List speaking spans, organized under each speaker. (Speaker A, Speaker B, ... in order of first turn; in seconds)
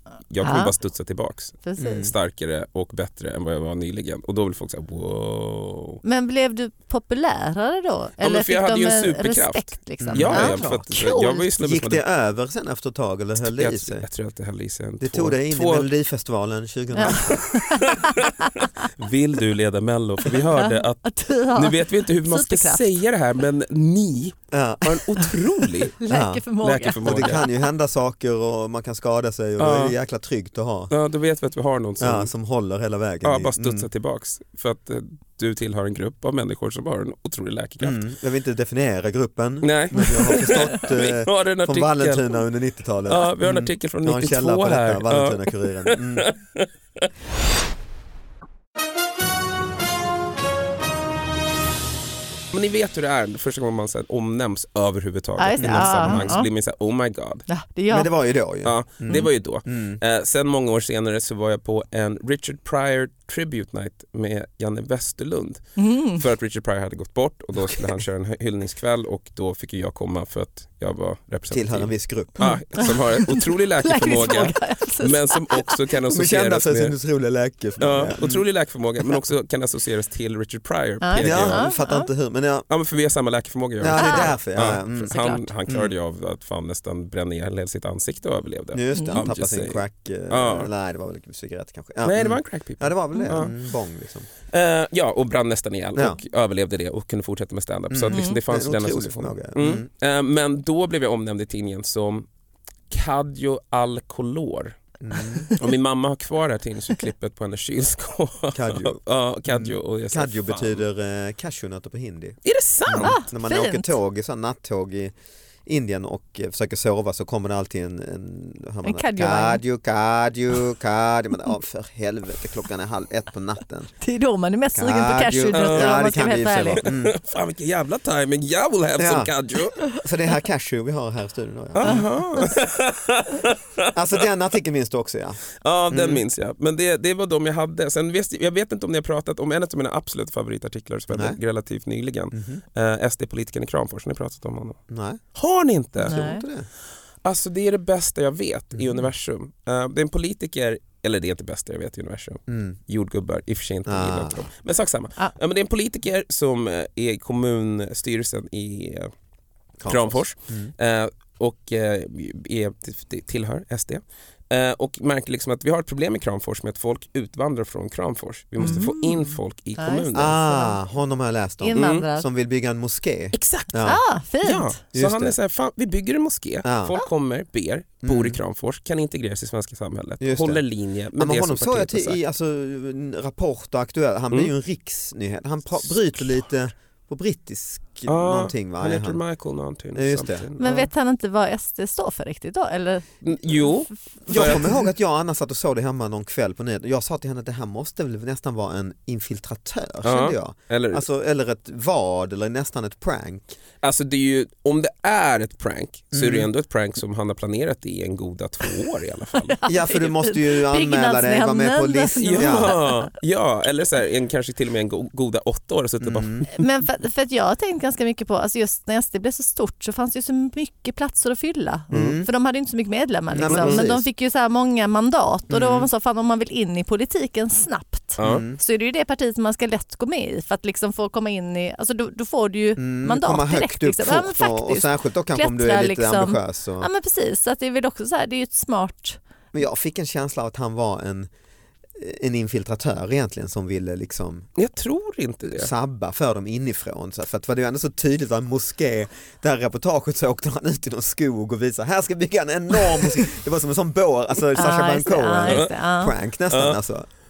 Speaker A: 0.3-6.0, 8.2-12.0, 13.4-15.9, 17.1-21.0, 21.6-26.0, 26.6-27.4, 29.6-29.9, 30.9-32.3, 33.2-38.0, 39.6-42.4, 43.1-47.1, 52.5-57.5, 58.6-65.6, 66.1-76.9, 77.8-81.7, 82.7-90.7, 92.0-93.5, 94.5-102.3, 102.9-104.8, 105.5-110.8, 112.5-113.2, 125.5-126.0, 126.8-129.8, 131.8-133.9, 135.6-144.8, 145.3-146.2, 147.2-159.1, 159.9-170.4, 171.8-172.1, 173.3-173.7, 174.4-182.2, 188.1-190.9, 193.2-194.7, 200.0-201.1, 203.8-209.6, 212.2-216.6, 223.5-223.8, 228.2-228.4, 244.6-245.7, 255.4-255.7, 256.5-256.8
Speaker B: 0.4-0.7, 1.6-2.1, 6.0-11.5, 16.9-18.9, 20.4-22.9, 25.2-27.6, 55.4-56.5, 57.5-58.1, 65.8-66.2, 72.4-75.8, 81.0-82.1, 84.0-84.3, 85.1-85.5, 88.9-89.2, 93.1-93.5, 98.1-98.4, 113.0-114.0, 118.8-119.6, 124.0-126.9, 131.8-132.4, 146.0-146.4, 168.6-170.8, 171.6-172.3, 173.8-174.8, 190.6-193.7, 209.4-213.1, 216.5-239.2, 254.6-256.1
Speaker C: 1.8-2.1, 10.0-10.9, 11.6-14.1, 15.0-17.4, 24.5-25.0, 26.1-26.4, 27.0-30.9, 32.0-33.9, 37.8-46.3, 55.6-56.4, 57.9-60.0, 71.5-72.4, 76.1-78.4, 81.2-82.7, 83.8-85.1, 85.7-85.9, 88.7-94.3, 97.9-99.9, 105.0-105.5, 108.5-115.1, 115.7-123.9, 124.7-127.2, 129.0-132.1, 133.9-136.2, 141.1-141.4, 142.3-142.6, 144.9-145.2, 146.0-146.7, 148.8-149.0, 152.5-152.8, 153.9-154.4, 159.8-160.7, 168.6-168.9, 170.1-174.0, 174.9-175.3, 176.6-177.0, 178.0-178.4, 180.2-180.6, 181.2-189.2, 189.9-190.5, 194.3-203.6, 206.1-206.5, 209.7-212.8, 216.0-216.5, 221.9-222.3, 223.3-224.1, 225.5-225.9, 228.2-228.6, 232.8-236.9, 239.5-241.3, 242.0-244.5, 245.5-257.1